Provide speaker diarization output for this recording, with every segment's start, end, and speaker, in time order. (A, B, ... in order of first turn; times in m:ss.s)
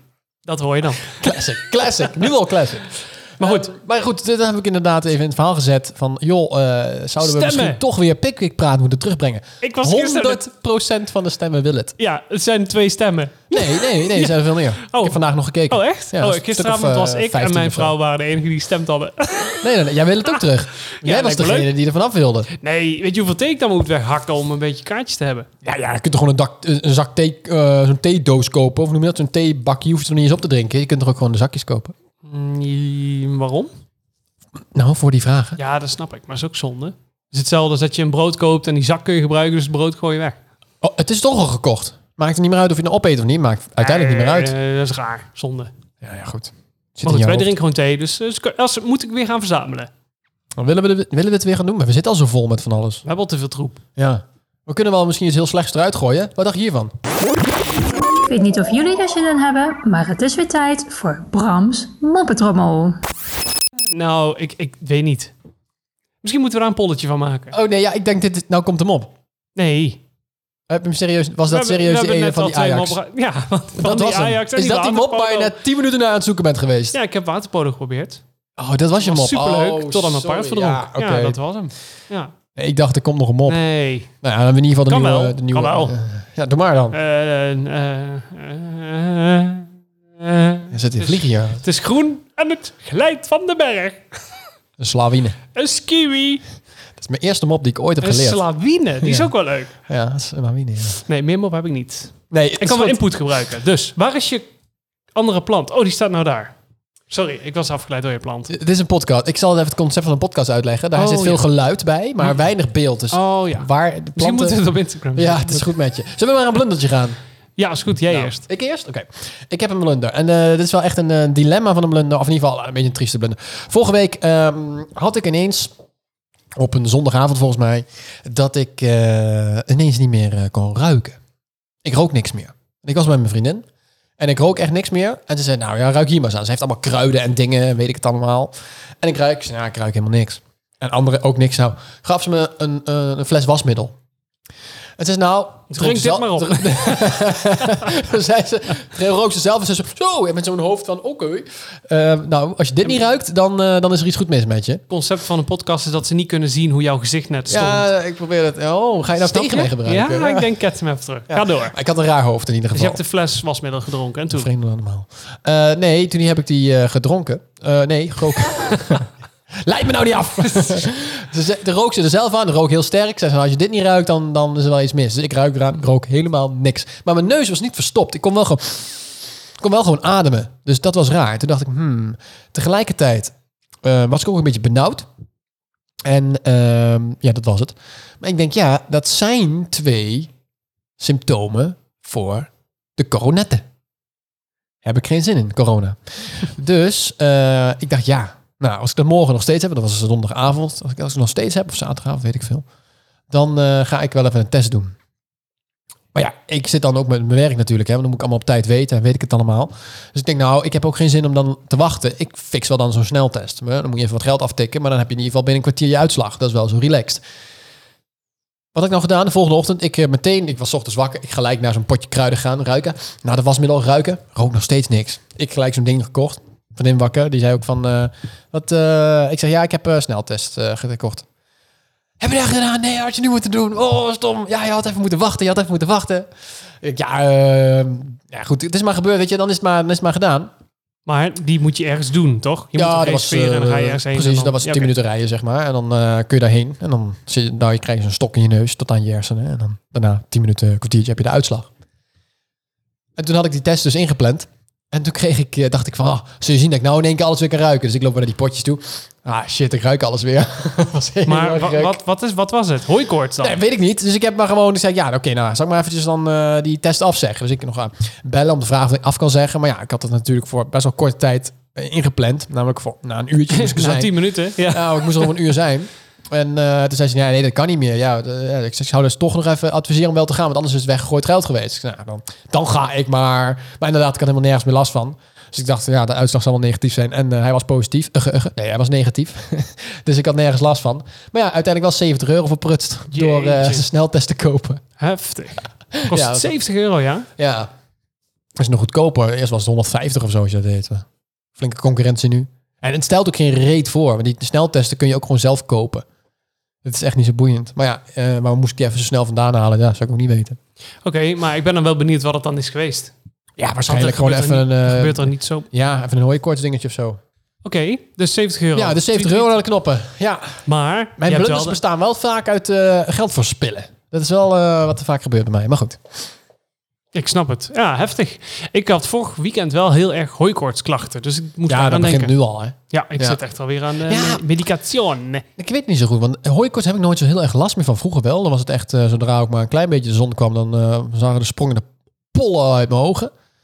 0:00.4-0:02.3 A
0:01.2-0:12.0 B
0:03.4-0:03.7 A
0:07.2-0:07.8 A
0:09.6-0:10.5 A
0:12.0-0:20.3 A
0:13.5-0:18.0 B
0:19.6-0:22.5 B
0:21.0-0:21.7 A
0:22.6-0:25.5 A
0:25.6-0:31.9 B
0:32.2-0:33.7 A
0:34.8-0:35.6 B
0:35.6-0:40.4 A
0:40.8-0:44.5 B
0:43.8-0:45.7 A
0:46.0-0:47.5 B
0:47.0-0:49.9 A
0:50.6-0:53.0 B
0:53.0-0:53.8 A
0:54.0-0:56.9 B
0:58.2-1:03.0 C
1:03.9-1:05.3 A
1:06.2-1:07.6 A
1:07.5-1:09.1 B
1:09.6-1:10.0 A
1:10.7-1:13.0 B
1:11.5-1:15.6 A
1:13.8-1:17.0 B
1:16.9-1:18.2 A
1:18.6-1:21.4 B
1:19.0-1:22.3 A
1:22.6-1:23.6 B
1:23.5-1:24.1 A
1:24.2-1:27.0 B
1:24.9-1:26.0 A
1:26.9-1:34.3 A
1:30.7-1:31.6 B
1:34.8-1:35.4 B
1:35.6-1:36.4 A
1:37.0-1:38.4 B
1:38.0-1:39.7 A
1:39.0-1:39.3 B
1:39.9-1:41.0 B
1:41.0-1:44.5 A
1:42.3-1:43.0 B
1:45.1-1:46.5 A
1:47.1-1:48.5 A
1:48.5-1:54.6 B
1:50.9-1:51.5 A
1:53.1-1:55.7 A
1:55.2-1:57.2 B
1:57.6-1:58.4 A
1:58.1-2:05.7 B
2:06.6-2:11.2 B
2:11.8-2:13.6 B
2:14.2-2:24.0 B
2:25.0-2:34.8 B
2:25.7-2:28.0 A
2:34.9-2:37.9 A
2:37.5-2:40.5 B
2:39.2-2:41.8 A
2:41.3-2:43.0 B
2:42.7-2:44.5 A
2:44.3-3:05.1 B
2:48.6-2:49.0 A
2:50.6-2:50.8 A
3:06.0-3:10.3 B
3:11.0-3:13.6 B
3:14.8-3:22.6 B
3:23.3-3:25.0 B
3:26.1-3:37.2 B
3:38.7-3:51.3 B
3:52.2-3:56.3 B
3:56.8-4:00.5 B
4:01.1-4:04.9 A
4:02.8-4:11.7 B
4:13.2-4:22.0 B
4:21.3-4:23.6 A
4:23.4-4:54.8 B
4:33.5-4:35.4 A
4:53.1-4:53.9 A
4:55.0-4:57.3 A
4:55.9-4:56.5 B
4:57.4-4:57.7 B
4:58.6-5:06.0 B
5:06.8-5:10.6 B
5:11.0-5:13.1 A
5:13.6-5:17.2 B
5:13.8-5:15.7 A
5:17.6-5:19.6 A
5:18.8-5:20.6 B
5:20.7-5:21.8 A
5:21.2-5:26.0 B
5:27.1-5:32.4 A
5:31.7-5:33.4 B
5:32.9-5:35.5 A
5:34.0-5:34.4 B
5:35.6-5:43.3 B